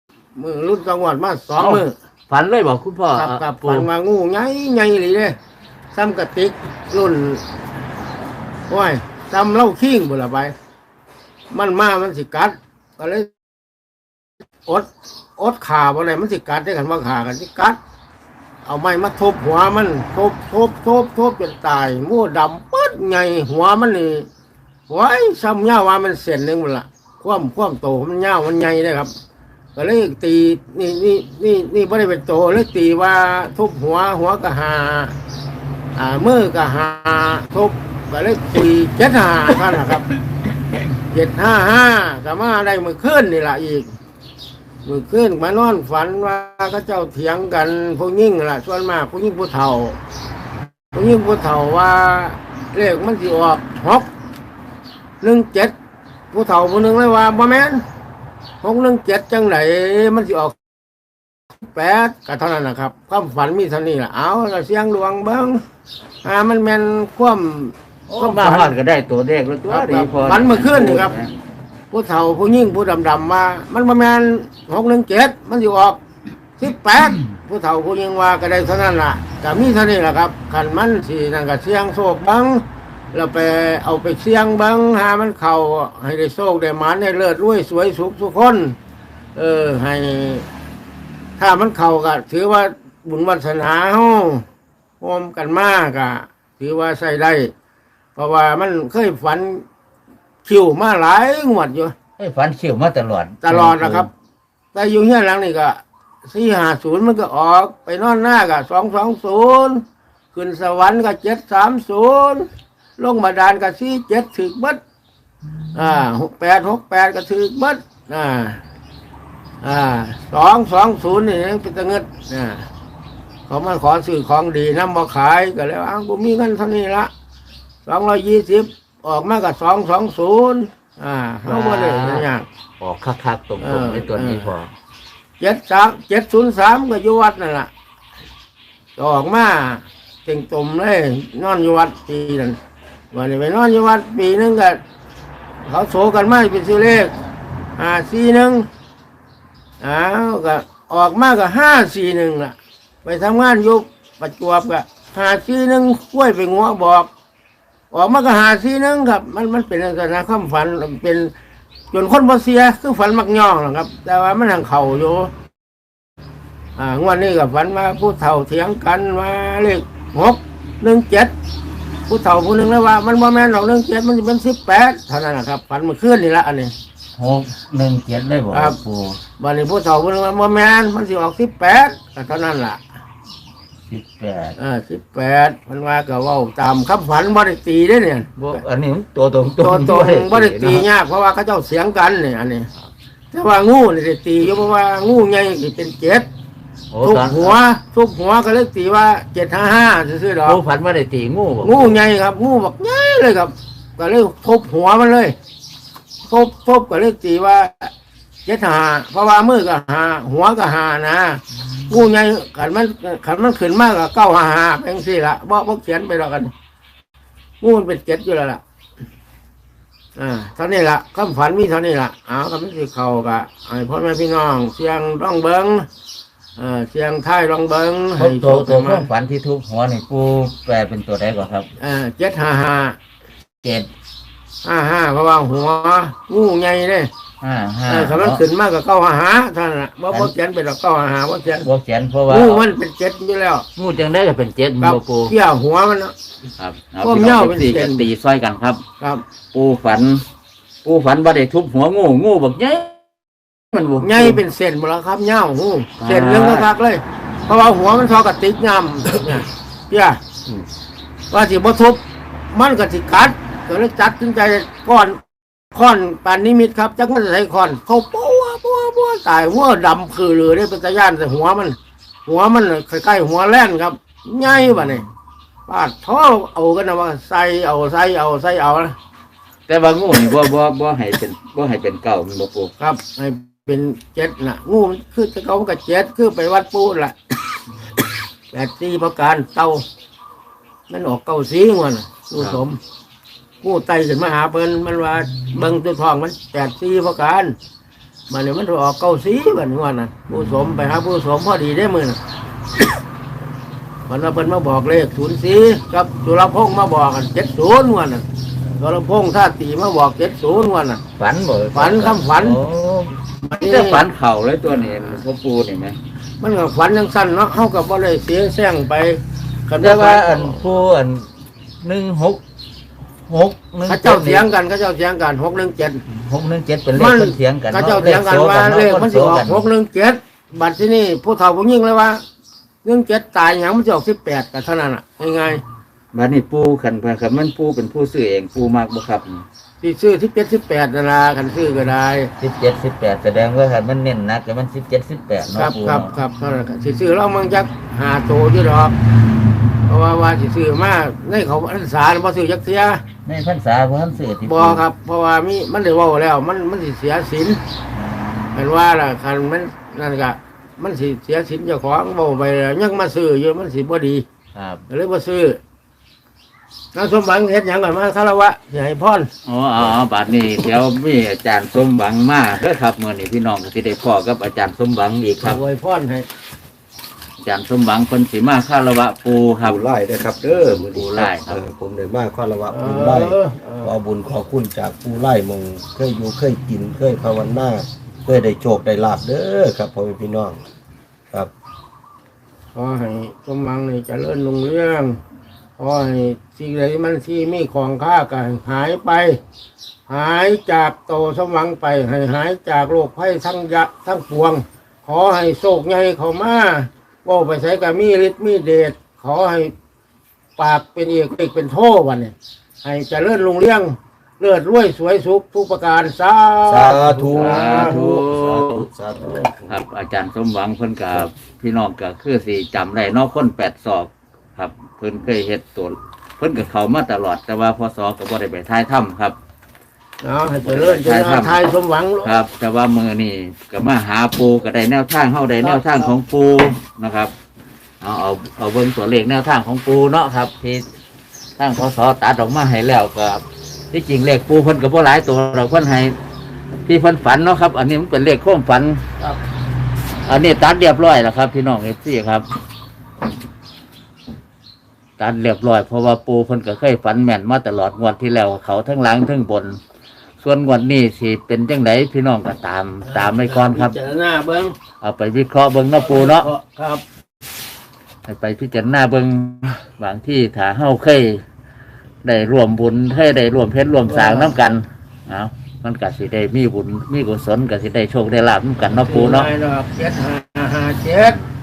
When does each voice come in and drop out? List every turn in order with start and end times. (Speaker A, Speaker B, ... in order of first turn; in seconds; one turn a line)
Speaker A: 0.4-1.9
Speaker B: 1.6-3.9
Speaker A: 3.1-5.4
Speaker A: 5.9-7.4
Speaker A: 8.7-10.5
Speaker A: 11.5-13.3
Speaker A: 14.7-17.8
Speaker A: 18.6-24.3
Speaker A: 24.9-29.1
Speaker A: 29.8-35.1
Speaker A: 36.0-40.1
Speaker A: 41.1-43.9
Speaker A: 44.9-50.0
Speaker A: 50.9-54.1
Speaker A: 55.2-55.7
Speaker A: 56.3-57.8
Speaker A: 58.6-60.6
Speaker A: 61.6-65.6
Speaker A: 66.2-68.8
Speaker B: 68.1-71.4
Speaker A: 69.7-71.2
Speaker A: 71.9-76.0
Speaker A: 76.6-88.8
Speaker A: 89.3-90.5
Speaker A: 91.4-94.4
Speaker A: 95.0-97.5
Speaker A: 98.2-99.7
Speaker A: 100.5-102.0
Speaker B: 102.2-104.1
Speaker A: 103.4-104.1
Speaker A: 104.7-109.8
Speaker A: 110.3-114.8
Speaker A: 115.7-118.6
Speaker A: 119.6-122.7
Speaker A: 123.5-127.1
Speaker A: 127.9-132.5
Speaker B: 131.4-132.3
Speaker B: 132.8-134.7
Speaker A: 133.6-134.5
Speaker A: 135.4-137.7
Speaker A: 139.0-142.6
Speaker A: 143.1-144.8
Speaker A: 145.7-147.1
Speaker A: 147.8-148.7
Speaker A: 149.8-157.1
Speaker A: 157.9-161.3
Speaker A: 161.9-165.3
Speaker A: 166.8-171.3
Speaker A: 172.1-176.7
Speaker B: 177.2-179.2
Speaker A: 178.5-178.8
Speaker A: 179.4-182.8
Speaker B: 183.9-184.6
Speaker A: 184.6-188.6
Speaker B: 188.4-190.9
Speaker A: 189.6-192.7
Speaker A: 193.3-196.3
Speaker B: 196.9-197.6
Speaker A: 197.0-200.6
Speaker B: 200.4-202.0
Speaker A: 201.6-205.3
Speaker A: 206.3-207.9
Speaker A: 208.5-216.5
Speaker A: 217.6-218.6
Speaker A: 220.2-225.9
Speaker A: 226.6-229.1
Speaker B: 228.2-231.7
Speaker A: 231.8-233.0
Speaker B: 233.6-233.9
Speaker A: 234.6-237.1
Speaker B: 237.4-238.4
Speaker A: 237.9-241.7
Speaker B: 241.6-242.7
Speaker A: 242.3-243.7
Speaker B: 243.8-245.3
Speaker A: 244.8-246.2
Speaker B: 246.6-248.8
Speaker A: 247.0-248.1
Speaker B: 249.5-250.2
Speaker B: 250.8-253.0
Speaker B: 253.7-254.4
Speaker A: 254.0-260.2
Speaker B: 256.0-256.7
Speaker A: 261.3-265.2
Speaker A: 265.7-275.0
Speaker B: 274.7-274.9
Speaker A: 275.7-278.9
Speaker B: 279.7-282.7
Speaker A: 282.8-287.1
Speaker A: 288.5-289.8
Speaker A: 290.9-292.8
Speaker A: 293.6-297.6
Speaker A: 298.3-302.2
Speaker B: 300.3-300.6
Speaker A: 304.1-308.2
Speaker A: 308.8-311.0
Speaker B: 311.2-316.0
Speaker A: 311.7-312.6
Speaker A: 313.4-314.0
Speaker A: 316.4-320.6
Speaker B: 319.8-321.3
Speaker B: 321.8-322.4
Speaker B: 323.3-324.4
Speaker A: 323.9-326.0
Speaker B: 326.1-329.6
Speaker A: 326.9-332.2
Speaker A: 332.8-335.6
Speaker B: 336.1-339.4
Speaker A: 339.8-342.3
Speaker B: 342.4-346.1
Speaker A: 345.5-348.9
Speaker A: 349.9-353.0
Speaker B: 353.2-354.8
Speaker A: 354.5-357.6
Speaker B: 357.9-358.7
Speaker A: 358.6-364.2
Speaker B: 364.6-364.8
Speaker A: 364.9-365.6
Speaker A: 366.9-369.3
Speaker B: 369.5-375.6
Speaker A: 375.4-376.3
Speaker B: 377.4-379.8
Speaker C: 379.6-390.6
Speaker B: 380.7-381.6
Speaker A: 382.7-383.9
Speaker A: 392.8-395.2
Speaker A: 395.8-399.4
Speaker A: 400.1-409.7
Speaker A: 410.6-418.0
Speaker C: 416.7-419.7
Speaker B: 417.3-418.9
Speaker B: 419.5-429.4
Speaker A: 430.2-432.4
Speaker B: 430.6-431.6
Speaker B: 432.2-437.3
Speaker A: 435.6-436.1
Speaker B: 438.0-440.9
Speaker B: 441.6-446.1
Speaker B: 446.9-449.0
Speaker B: 450.2-452.5
Speaker B: 455.2-459.8
Speaker B: 460.4-464.0
Speaker A: 463.1-464.8
Speaker B: 465.0-466.5
Speaker A: 466.0-467.0
Speaker B: 468.2-471.4
Speaker B: 472.2-479.5
Speaker A: 474.1-474.6
Speaker A: 479.0-481.4